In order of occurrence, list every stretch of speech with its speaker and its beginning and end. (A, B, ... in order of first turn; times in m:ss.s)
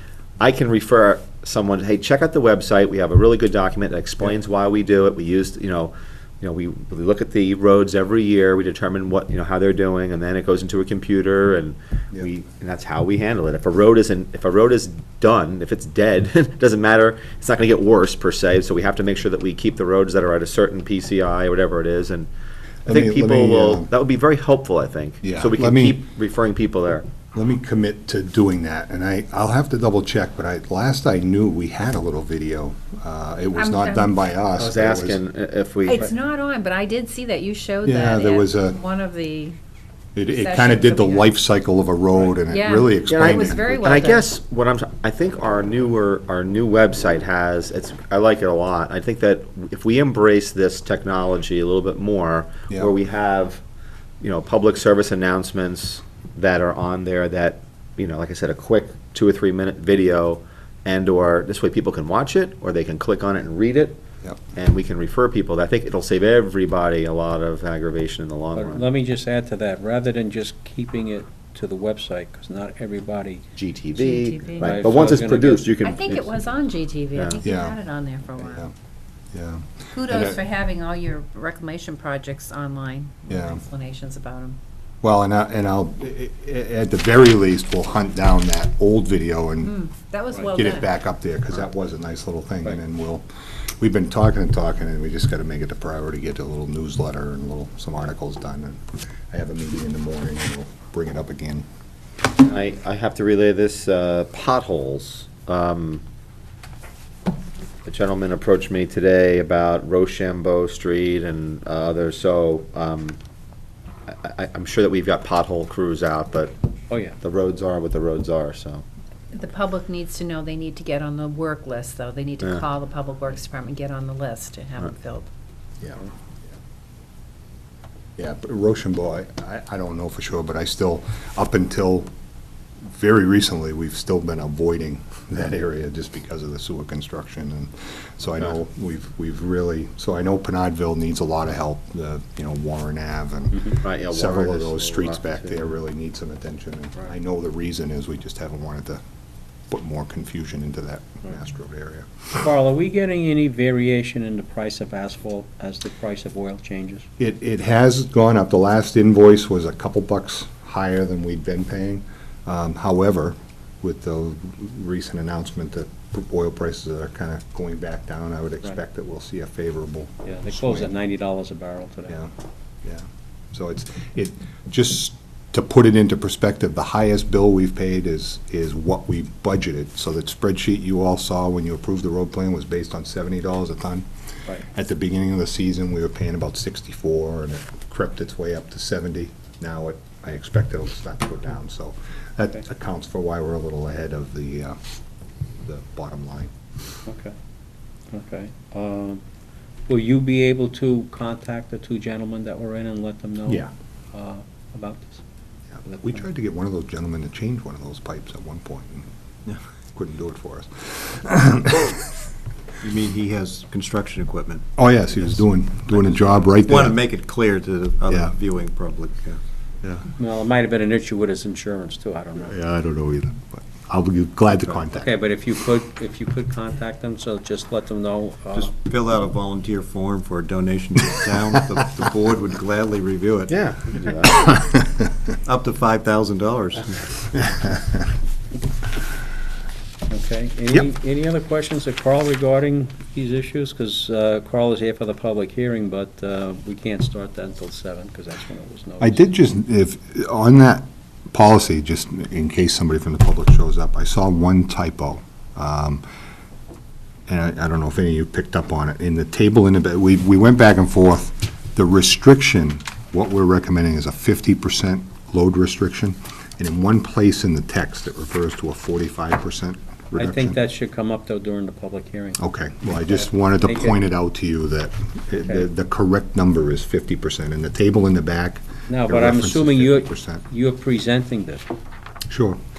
0:00.4-0:22.3 A
0:22.9-0:27.1 A
0:22.9-0:23.9 B
0:25.2-0:26.0 B
0:27.3-0:35.2 B
0:33.6-0:34.2 C
0:34.6-0:36.1 A
0:35.8-0:39.6 C
0:37.8-0:38.8 B
0:40.2-0:43.9 B
0:40.3-0:41.3 C
0:42.5-0:44.3 C
0:43.1-0:53.6 A
0:54.2-1:04.0 A
1:04.5-1:08.9 A
1:08.6-1:13.4 D
1:13.6-1:16.5 A
1:14.0-1:15.0 C
1:14.6-1:15.7 D
1:15.8-1:18.7 C
1:17.1-1:17.4 A
1:17.4-1:17.8 B
1:18.4-1:18.7 B
1:19.3-1:20.4 B
1:19.9-1:24.6 C
1:23.3-1:23.6 B
1:25.0-1:29.8 B
1:29.6-1:30.9 C
1:30.4-1:33.3 B
1:33.8-1:41.6 B
1:42.4-1:46.0 A
1:47.8-1:53.2 A
1:54.1-1:56.6 A
1:56.9-1:57.2 D
1:57.2-1:58.8 A
1:59.3-2:05.3 C
2:05.8-2:06.1 B
2:08.2-2:12.1 B
2:12.8-2:29.0 B
2:23.8-2:25.7 A
2:29.7-2:32.5 B
2:32.4-2:37.1 D
2:37.2-2:50.9 B
2:50.3-2:52.2 D
2:52.8-3:04.1 B
3:04.7-3:14.8 B
3:15.6-3:16.5 B
3:17.1-3:17.3 D
3:18.1-3:19.2 D
3:19.9-3:25.2 D
3:25.8-3:29.1 B
3:29.9-3:32.1 B
3:32.8-3:39.4 E
3:34.8-3:37.0 B
3:38.1-3:38.3 B
3:40.2-3:42.6 D
3:42.4-3:45.1 B
3:44.8-3:48.7 D
3:48.5-3:53.6 E
3:53.5-3:54.5 A
3:55.4-3:57.4 E
4:00.1-4:09.2 D
4:09.0-4:16.0 B
4:17.3-4:30.6 B
4:30.2-4:32.4 D
4:32.4-4:40.4 B
4:33.0-4:34.0 D
4:38.9-4:41.7 D
4:42.3-4:42.6 B